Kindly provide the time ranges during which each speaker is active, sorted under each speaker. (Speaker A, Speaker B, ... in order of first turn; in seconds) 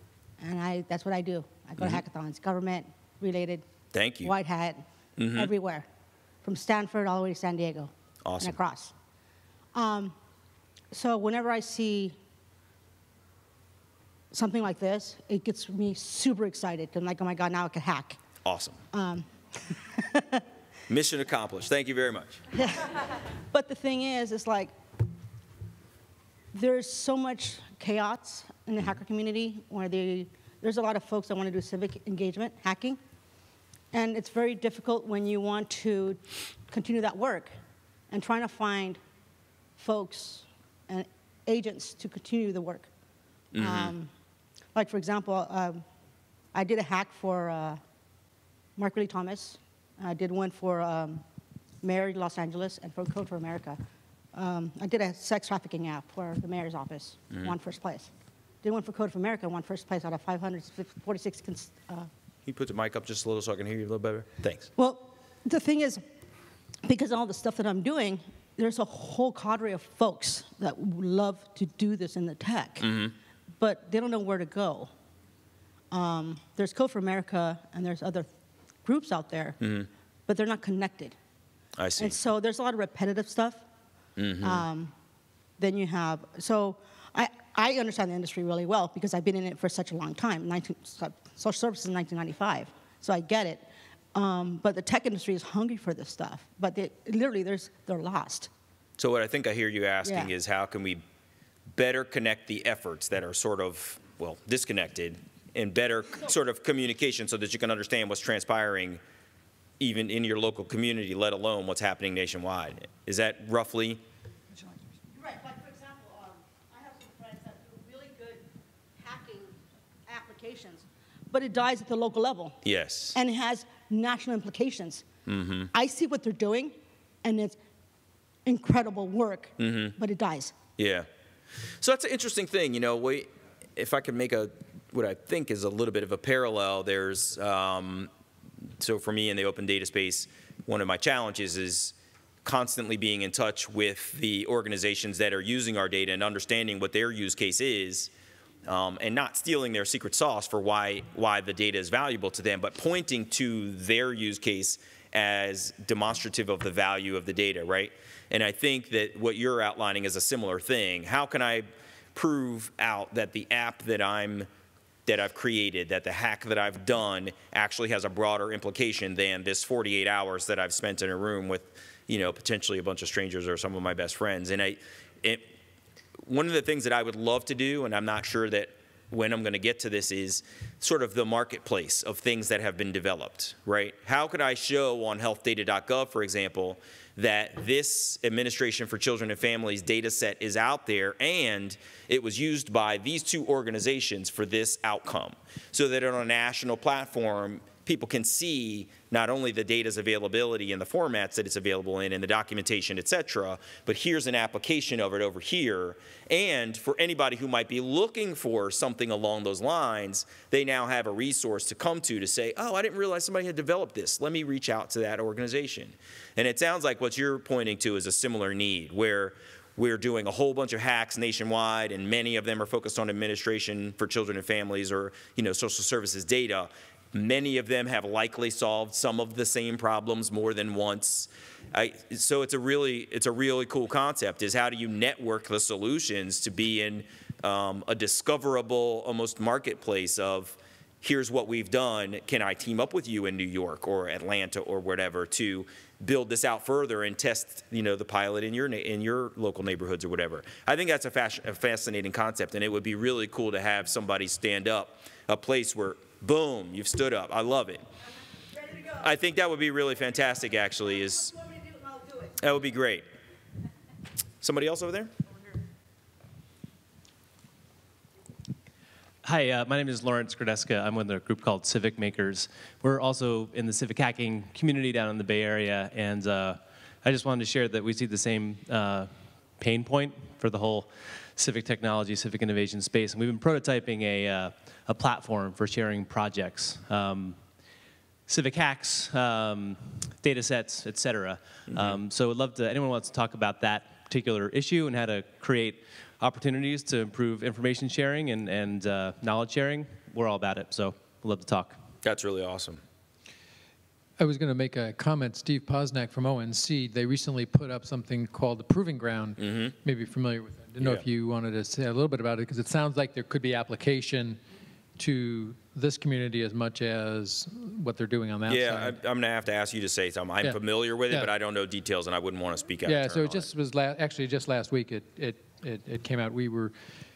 Speaker A: 0.4-3.6, 4.2-5.9, 6.4-8.9, 9.7-10.2, 10.9-12.2, 14.3-18.2, 18.9-20.4, 22.5-24.7, 26.5-33.0, 33.9-37.5, 38.1-39.0, 39.8-42.9, 43.6-44.1, 44.8-45.8, 46.5-47.8, 48.8-51.2, 51.8-53.8, 54.3-58.1, 58.6-62.1, 64.8-66.0, 66.8-72.9, 73.6-74.9, 75.9-78.3, 78.8-79.6, 80.3-81.2, 82.0-83.6, 84.4-84.9, 85.6-98.5, 100.0-100.3, 115.0-118.5, 119.0-122.6, 123.1-125.0, 125.7-127.6, 128.4-130.6, 261.4-262.3
Speaker B: 3.9-4.3, 5.2-5.5, 8.2-8.6, 18.4-18.8, 20.9-22.4, 43.5-43.9, 62.5-64.7, 72.8-73.1, 79.6-79.9, 81.8-82.2, 84.2-84.7, 99.0-101.0, 101.7-109.0, 109.8-114.0, 122.6-123.2, 125.3-125.7, 129.6-130.0, 130.8-131.1, 131.8-138.1, 138.8-148.1, 148.7-164.5, 165.1-175.4, 176.2-257.8, 259.0-261.4, 262.4-263.1, 264.4-265.1, 302.0-302.8, 309.4-309.7, 310.8-311.1, 318.5-323.5
Speaker C: 269.2-287.4, 288.3-301.8
Speaker D: 304.2-314.4, 315.0-319.0, 322.9-326.7